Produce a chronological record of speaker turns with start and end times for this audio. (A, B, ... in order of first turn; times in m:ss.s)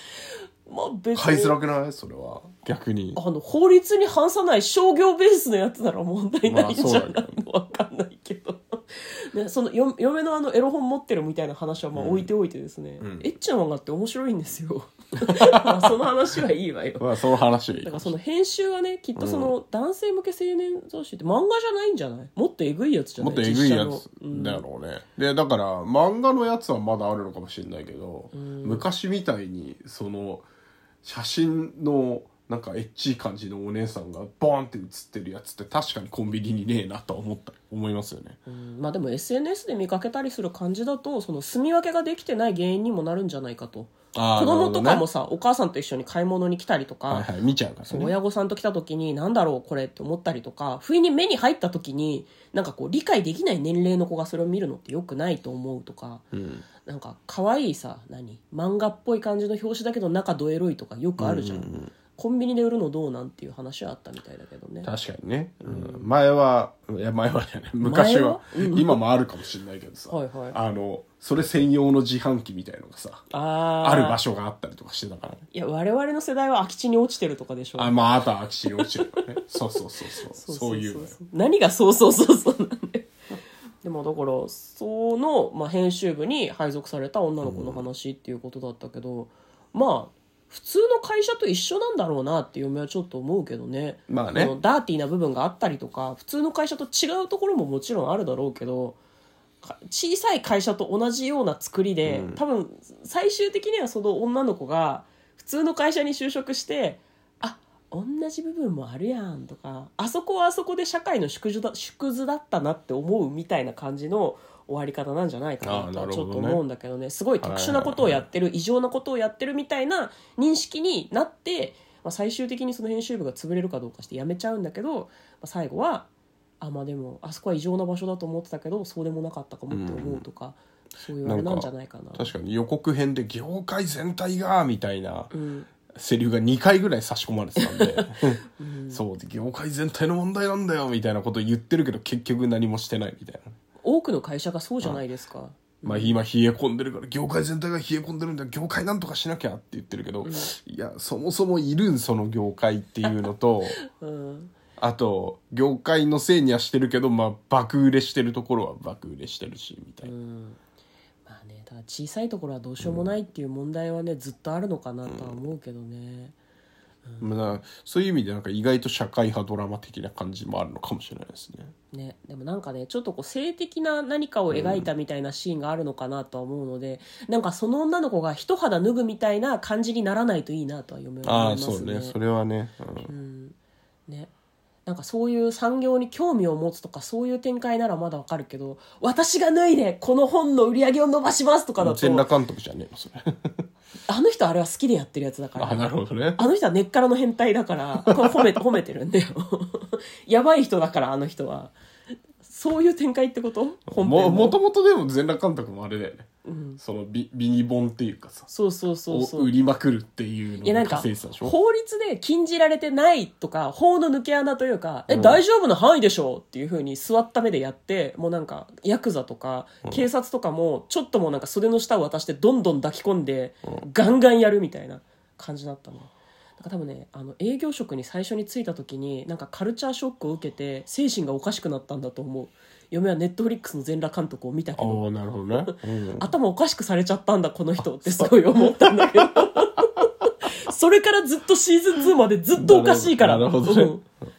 0:00.7-0:01.6 A
0:01.2-0:03.2 B
0:03.2-0:17.2 A
0:06.5-0:07.4 B
0:12.0-0:12.3 B
0:13.0-0:13.3 B
0:15.2-0:16.1 B
0:17.0-0:18.1 B
0:17.8-0:24.6 A
0:19.2-0:19.5 B
0:23.2-0:30.5 B
0:28.3-0:28.8 A
0:31.0-0:38.4 B
0:38.5-0:47.3 A
0:44.2-0:45.0 B
0:47.1-0:48.2 B
0:47.9-0:56.2 A
0:56.3-0:56.7 B
0:56.8-1:04.9 A
1:01.2-1:01.9 B
1:04.8-1:13.3 B
1:05.6-1:06.1 A
1:07.8-1:09.0 A
1:10.1-1:10.6 A
1:13.3-1:14.2 A
1:13.8-1:15.4 B
1:15.5-1:18.0 A
1:17.8-1:21.2 B
1:18.8-1:19.2 A
1:20.3-1:23.1 A
1:23.8-1:39.0 A
1:27.4-1:27.8 B
1:34.1-1:34.5 B
1:39.6-2:06.1 A
1:42.0-1:42.4 B
1:55.6-1:56.6 B
1:57.4-1:58.2 B
2:06.6-2:12.3 A
2:09.7-2:10.2 B
2:11.2-2:15.3 B
2:15.3-2:15.7 A
2:15.9-2:23.6 B
2:17.6-2:19.0 A
2:23.8-2:26.2 A
2:25.8-2:33.8 B
2:30.2-2:30.5 A
2:33.9-2:34.5 A
2:34.8-2:40.1 B
2:40.0-2:40.6 A
2:41.3-2:46.4 A
2:42.8-2:43.1 B
2:45.1-2:45.4 B
2:47.1-2:47.4 A
2:47.2-2:51.7 B
2:51.9-3:02.2 A
2:54.5-2:54.9 B
3:01.2-3:03.1 B
3:03.1-3:03.6 A
3:04.9-3:12.3 A
3:11.8-3:13.6 B
3:14.1-3:21.7 A
3:15.6-3:16.4 B
3:22.4-3:24.6 A
3:23.9-3:26.3 B
3:26.4-3:26.8 A
3:26.8-3:28.5 B
3:28.5-3:29.5 A
3:29.1-3:31.6 B
3:30.6-3:55.0 A
3:35.1-3:35.4 B
3:54.8-3:56.3 B
3:55.7-4:04.0 A
3:57.8-3:59.9 B
4:02.5-4:04.0 B